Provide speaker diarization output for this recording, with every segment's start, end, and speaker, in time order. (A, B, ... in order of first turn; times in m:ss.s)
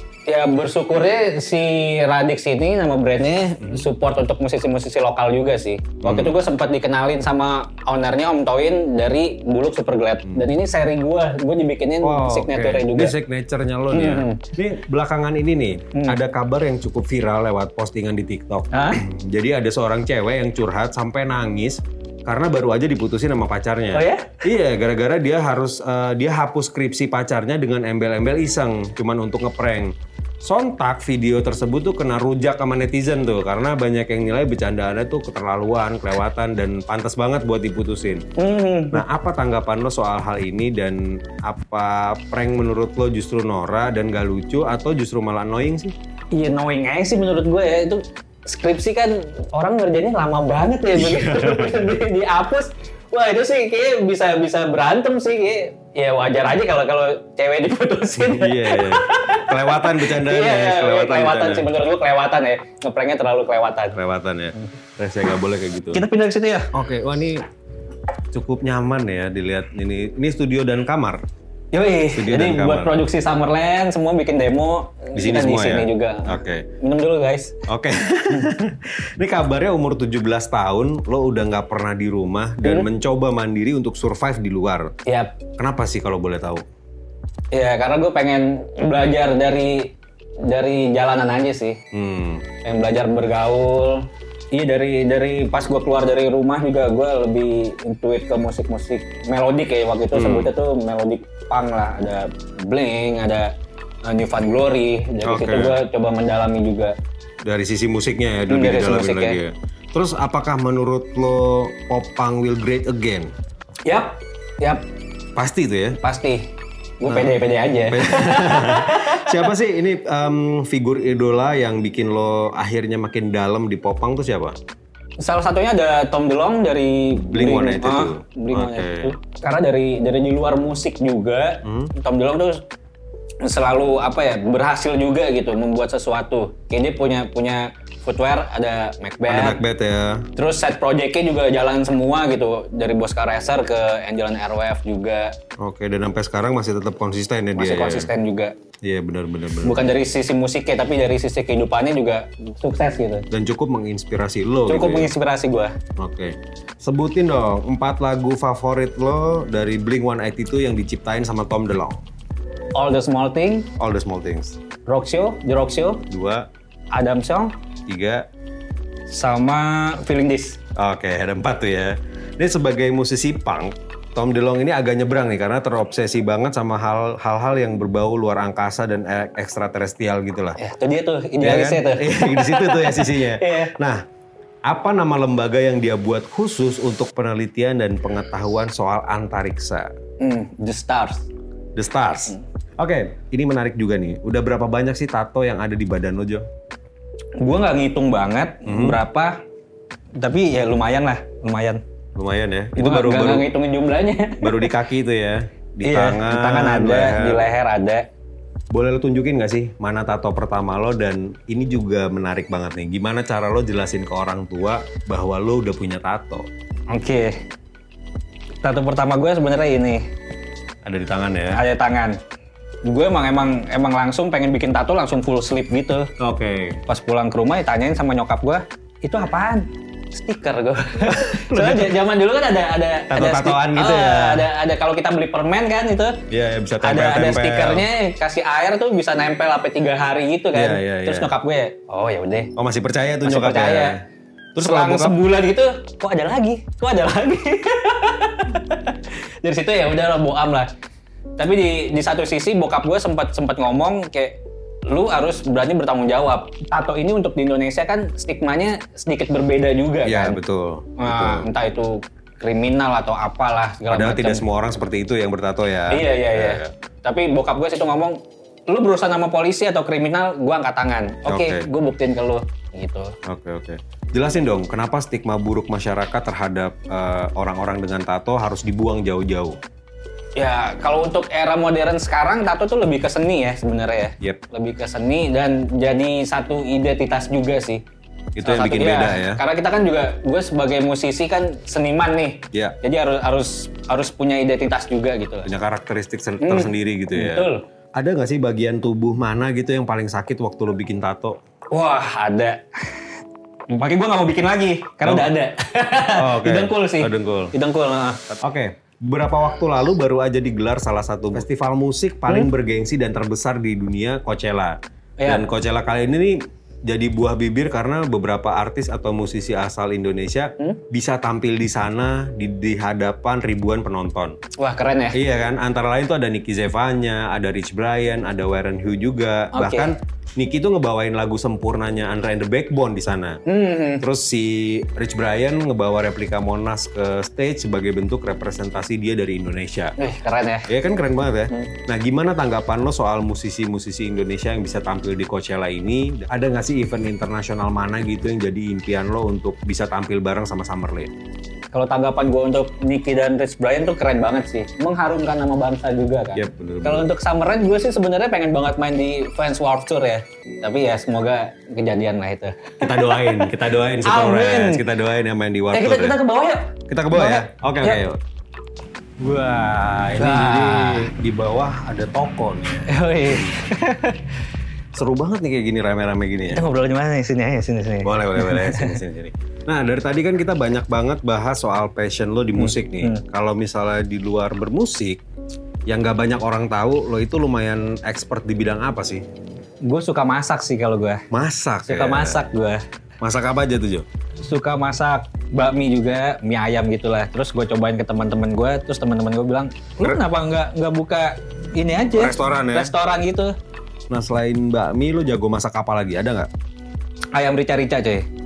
0:00.2-0:13.1 A
0:06.0-0:06.4 B
0:12.0-0:38.2 B
0:13.9-0:14.4 A
0:15.9-0:16.2 A
0:18.7-0:19.0 A
0:23.9-0:24.4 A
0:38.4-0:39.0 A
0:38.9-0:45.9 B
0:46.3-1:04.0 A
0:50.9-0:52.0 B
0:58.1-1:01.7 B
1:03.9-1:06.0 B
1:05.9-1:06.7 A
1:06.7-1:07.4 B
1:08.3-1:11.2 B
1:11.7-1:17.6 A
1:12.1-1:13.0 B
1:15.1-1:16.6 B
1:17.7-1:24.9 B
1:25.0-1:25.4 A
1:25.6-1:26.6 B
1:27.5-1:29.9 A
1:30.5-1:31.8 A
1:31.9-1:32.4 B
1:32.6-1:43.5 A
1:40.1-1:40.5 B
1:44.0-1:46.9 A
1:45.2-1:45.8 B
1:47.4-1:53.3 B
1:48.5-1:49.4 A
1:53.8-1:54.8 A
1:55.4-1:56.0 B
1:56.0-1:56.5 A
1:57.0-1:59.4 A
1:57.1-1:57.4 B
1:57.9-2:04.6 B
2:05.2-2:12.6 A
2:07.2-2:09.1 B
2:11.6-2:11.9 B
2:13.4-2:19.6 A
2:19.2-2:20.3 B
2:20.4-2:25.3 A
2:25.6-2:28.1 B
2:27.6-2:28.5 A
2:28.8-2:29.9 B
2:29.6-2:33.2 A
2:33.3-2:35.1 B
2:34.7-2:35.7 A
2:36.0-2:42.0 B
2:42.7-2:43.7 A
2:43.8-2:44.6 B
2:44.8-2:46.0 A
2:46.1-2:46.4 B
2:46.9-2:47.5 A
2:47.9-2:48.2 B
2:49.1-2:50.6 A
2:50.8-3:00.6 B
3:00.6-3:03.7 A
3:01.4-3:04.0 B
3:04.7-3:09.9 B
3:10.2-3:11.3 A
3:11.8-3:16.4 B
3:17.4-3:19.4 A
3:18.6-3:19.0 B
3:20.2-3:21.8 A
3:22.2-3:23.5 B
3:22.8-3:24.7 A
3:24.4-3:27.5 B
3:25.8-3:28.0 A
3:28.7-3:36.5 B
3:36.9-3:37.3 A
3:38.6-3:40.0 A
3:40.8-3:41.6 B
3:41.5-3:42.2 A
3:42.8-3:46.1 A
3:46.2-3:46.8 B
3:46.9-3:56.2 A
3:51.1-3:52.0 B
3:53.1-3:54.5 B
3:56.3-3:57.8 B
3:56.8-4:02.5 A
4:00.5-4:01.3 B
4:02.6-4:04.0 B
4:03.2-4:04.0 A
4:04.5-4:05.2 B
4:04.6-4:10.7 A
4:11.4-4:20.4 A
4:20.0-4:21.5 B
4:21.0-4:24.4 A
4:23.9-4:26.7 B
4:25.9-4:33.1 A
4:31.2-4:31.7 B
4:33.2-4:39.6 B
4:40.4-4:47.8 A
4:48.4-4:49.4 B
4:48.4-4:55.5 A
4:55.4-5:01.4 B
4:56.4-4:57.6 A
5:01.7-5:03.0 A
5:03.7-5:08.3 A
5:05.0-5:05.3 B
5:06.2-5:07.5 B
5:08.4-5:24.3 B
5:15.2-5:15.4 A
5:24.6-5:25.2 A
5:25.1-5:33.4 B
5:29.5-5:29.9 A
5:33.4-5:34.0 A
5:34.0-5:39.9 B
5:40.0-5:40.7 A
5:40.7-5:51.1 B
5:51.7-6:03.5 A
5:56.3-5:57.1 B
6:02.8-6:06.2 B
6:04.0-6:04.8 A
6:05.7-6:08.0 A
6:06.9-6:08.2 B
6:09.2-6:11.1 A
6:10.1-6:13.5 B
6:12.8-6:14.2 A
6:14.9-6:16.6 B
6:16.5-6:19.0 A
6:18.0-6:25.2 B
6:22.6-6:23.2 A
6:25.9-6:29.2 B
6:29.8-6:31.2 A
6:31.3-6:32.4 B
6:31.8-6:32.8 A
6:33.2-6:34.0 B
6:34.4-6:43.5 A
6:42.1-6:42.9 B
6:44.1-6:46.5 B
6:47.3-6:48.2 A